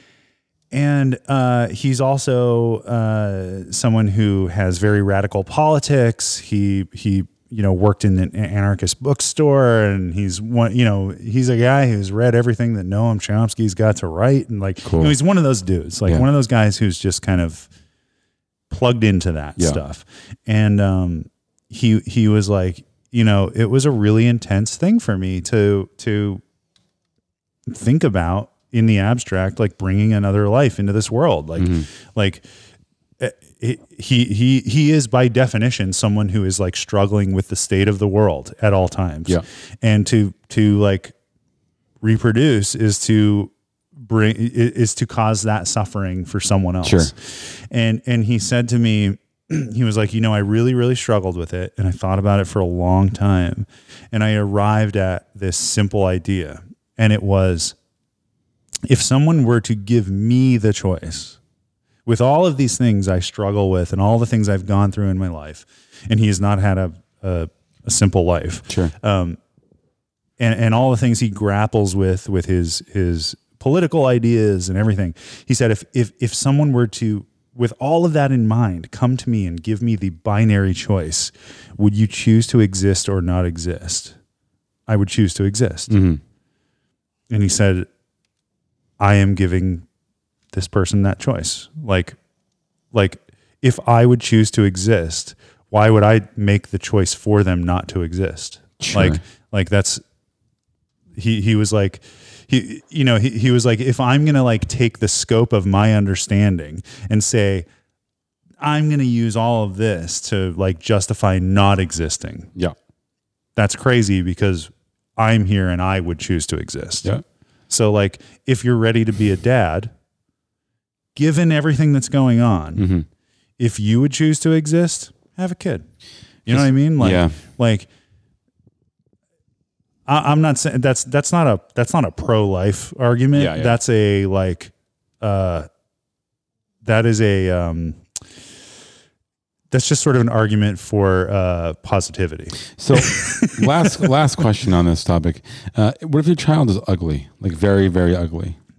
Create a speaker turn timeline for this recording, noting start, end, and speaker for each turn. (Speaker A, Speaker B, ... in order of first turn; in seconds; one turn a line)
Speaker A: 0.7-17.7
Speaker B: 14.8-15.2
Speaker A: 18.7-26.4
Speaker A: 27.7-32.4
Speaker B: 31.6-31.9
Speaker A: 33.2-41.1
Speaker A: 42.0-57.8
Speaker B: 46.8-47.1
Speaker A: 58.9-61.4
Speaker A: 62.0-69.4
Speaker A: 70.4-84.2
Speaker A: 84.9-86.0
Speaker B: 85.9-86.2
Speaker A: 87.3-87.9
Speaker A: 89.0-89.8
Speaker A: 90.5-92.2
Speaker A: 92.9-100.0
Speaker B: 98.8-99.2
Speaker A: 101.2-107.7
Speaker A: 108.6-112.5
Speaker A: 113.5-117.1
Speaker A: 117.7-119.9
Speaker A: 121.1-122.8
Speaker B: 122.8-123.0
Speaker A: 123.6-125.8
Speaker A: 126.5-127.9
Speaker B: 126.5-127.4
Speaker A: 130.1-135.7
Speaker B: 133.3-133.8
Speaker A: 136.8-138.0
Speaker A: 139.7-144.1
Speaker B: 142.8-148.6